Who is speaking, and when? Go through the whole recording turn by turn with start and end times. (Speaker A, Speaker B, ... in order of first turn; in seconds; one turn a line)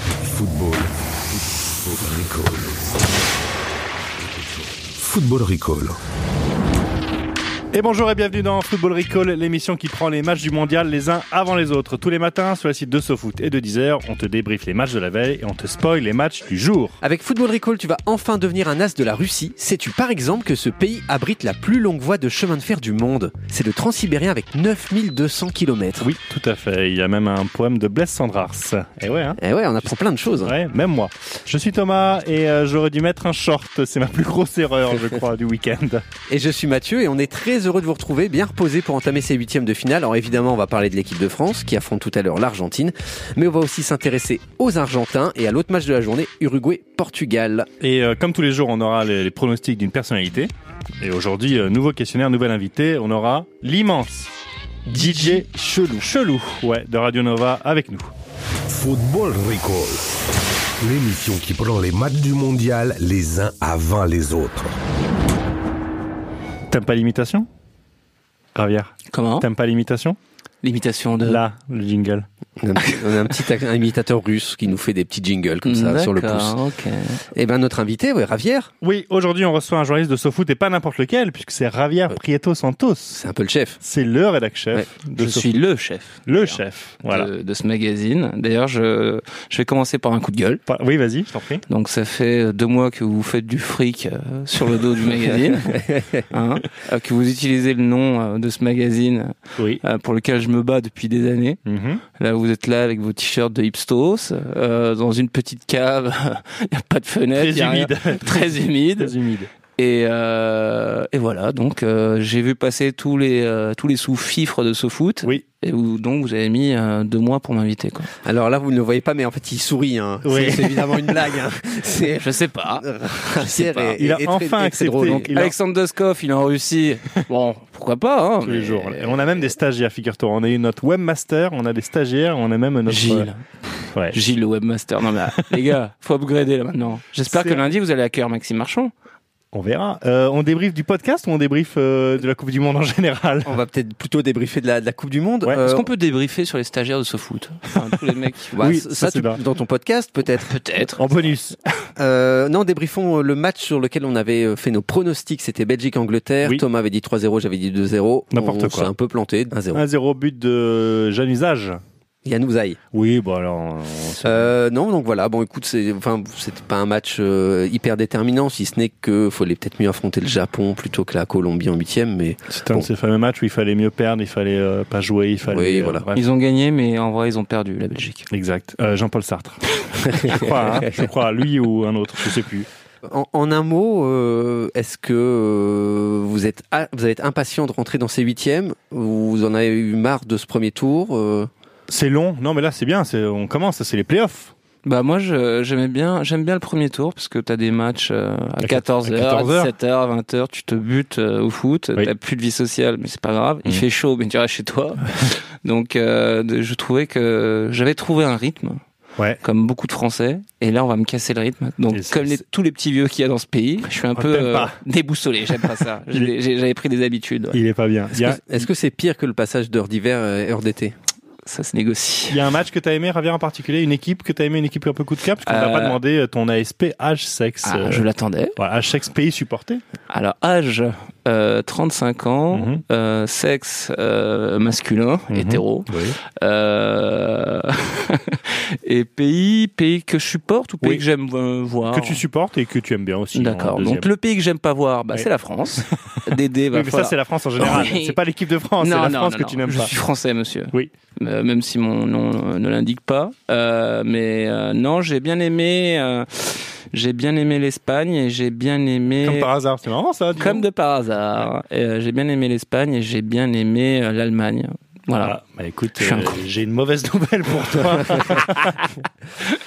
Speaker A: 0.2-0.9
Speaker A: 1.8-3.0
Speaker A: 4.4-6.0
Speaker B: 7.7-17.0
Speaker C: 17.0-26.1
Speaker B: 26.0-29.4
Speaker C: 29.4-30.5
Speaker B: 30.4-36.0
Speaker C: 36.3-47.7
Speaker B: 47.8-50.5
Speaker B: 51.0-54.3
Speaker C: 54.9-55.9
Speaker B: 54.9-58.1
Speaker A: 58.7-60.1
Speaker A: 60.8-64.8
Speaker B: 66.7-67.5
Speaker B: 68.5-70.2
Speaker D: 69.1-69.5
Speaker D: 70.6-71.4
Speaker B: 71.2-72.3
Speaker C: 72.6-76.6
Speaker D: 75.7-77.2
Speaker C: 77.3-78.7
Speaker B: 78.8-83.1
Speaker C: 83.1-83.8
Speaker B: 83.8-85.6
Speaker D: 85.1-90.6
Speaker B: 86.3-87.3
Speaker B: 90.7-91.6
Speaker D: 91.7-101.6
Speaker B: 99.6-99.8
Speaker B: 101.7-102.0
Speaker D: 102.2-109.1
Speaker B: 107.4-109.5
Speaker D: 109.8-118.1
Speaker C: 118.2-125.3
Speaker B: 120.3-121.0
Speaker D: 122.2-123.9
Speaker B: 124.0-125.5
Speaker D: 125.3-129.5
Speaker B: 128.4-133.3
Speaker D: 132.9-133.4
Speaker D: 134.1-138.9
Speaker B: 137.3-137.6
Speaker B: 139.5-143.6
Speaker C: 143.5-145.9
Speaker D: 145.6-148.6
Speaker C: 148.6-150.5
Speaker B: 148.6-149.4
Speaker D: 150.5-151.0
Speaker B: 151.0-151.6
Speaker C: 152.0-159.8
Speaker B: 158.3-158.9
Speaker B: 159.7-161.8
Speaker C: 162.2-162.8
Speaker B: 162.9-164.5
Speaker C: 164.2-172.9
Speaker B: 172.5-176.2
Speaker C: 175.5-176.1
Speaker D: 176.1-178.3
Speaker B: 178.3-182.7
Speaker C: 183.1-191.5
Speaker B: 191.9-194.5
Speaker D: 194.8-205.1
Speaker B: 198.6-199.7
Speaker D: 205.6-208.8
Speaker D: 209.4-217.6
Speaker B: 211.9-212.4
Speaker B: 214.1-214.8
Speaker B: 215.5-216.3
Speaker B: 217.5-218.6
Speaker C: 218.1-220.9
Speaker D: 221.5-222.4
Speaker B: 222.3-228.0
Speaker D: 225.4-226.0
Speaker D: 227.6-228.6
Speaker B: 228.6-229.8
Speaker D: 230.1-242.2
Speaker B: 232.5-232.8
Speaker B: 235.3-236.2
Speaker B: 241.9-244.1
Speaker D: 243.3-248.2
Speaker B: 246.7-249.9
Speaker D: 248.8-259.5
Speaker B: 259.2-260.6
Speaker D: 260.4-265.4
Speaker B: 265.2-268.9
Speaker D: 266.0-266.4